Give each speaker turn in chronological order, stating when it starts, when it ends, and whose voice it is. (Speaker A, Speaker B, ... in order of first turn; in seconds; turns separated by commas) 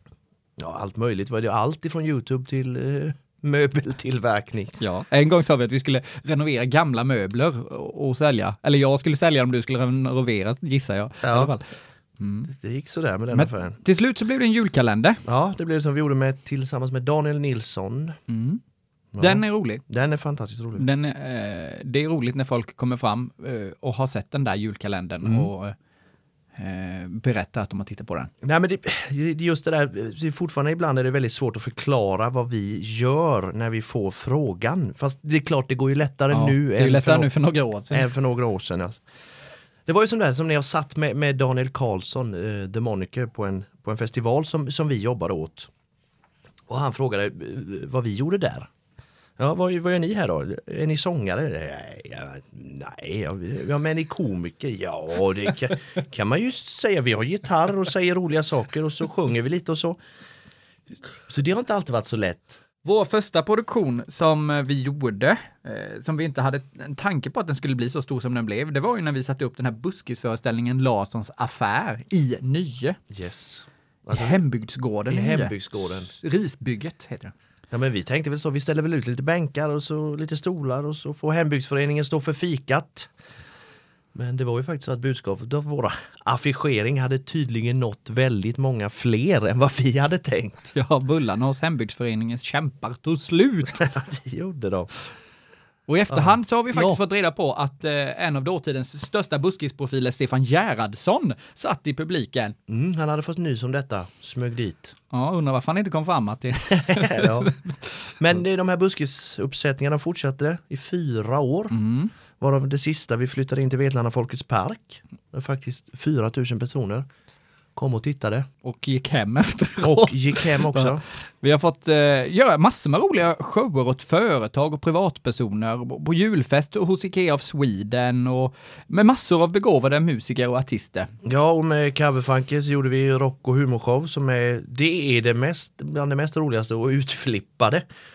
Speaker A: 0.6-4.8, Speaker B: 4.8-11.6, Speaker A: 11.2-11.5, Speaker B: 12.2-12.5, Speaker A: 12.5-13.8, Speaker B: 13.3-15.2, Speaker A: 15.2-18.2, Speaker B: 18.3-18.6, Speaker A: 19.1-20.8, Speaker B: 19.2-19.8, Speaker B: 20.8-25.7, Speaker A: 25.2-25.5, Speaker B: 26.6-28.3, Speaker A: 28.4-37.3, Speaker B: 36.3-38.1, Speaker A: 37.9-39.0, Speaker A: 39.9-45.7, Speaker A: 46.7-48.7, Speaker A: 49.4-60.0, Speaker A: 61.3-62.6, Speaker B: 62.8-73.0, Speaker A: 73.1-74.4, Speaker B: 74.1-77.3, Speaker A: 75.1-76.1, Speaker A: 77.7-83.1, Speaker A: 84.1-90.7, Speaker B: 90.7-93.8, Speaker A: 93.7-94.9, Speaker B: 95.9-102.5, Speaker A: 96.1-97.0, Speaker A: 102.7-104.9, Speaker B: 105.1-107.7, Speaker A: 106.7-107.5, Speaker A: 108.2-111.8, Speaker B: 111.7-112.1, Speaker A: 112.4-117.0, Speaker A: 117.8-118.5, Speaker B: 118.6-131.1, Speaker A: 119.8-121.0, Speaker A: 131.2-137.8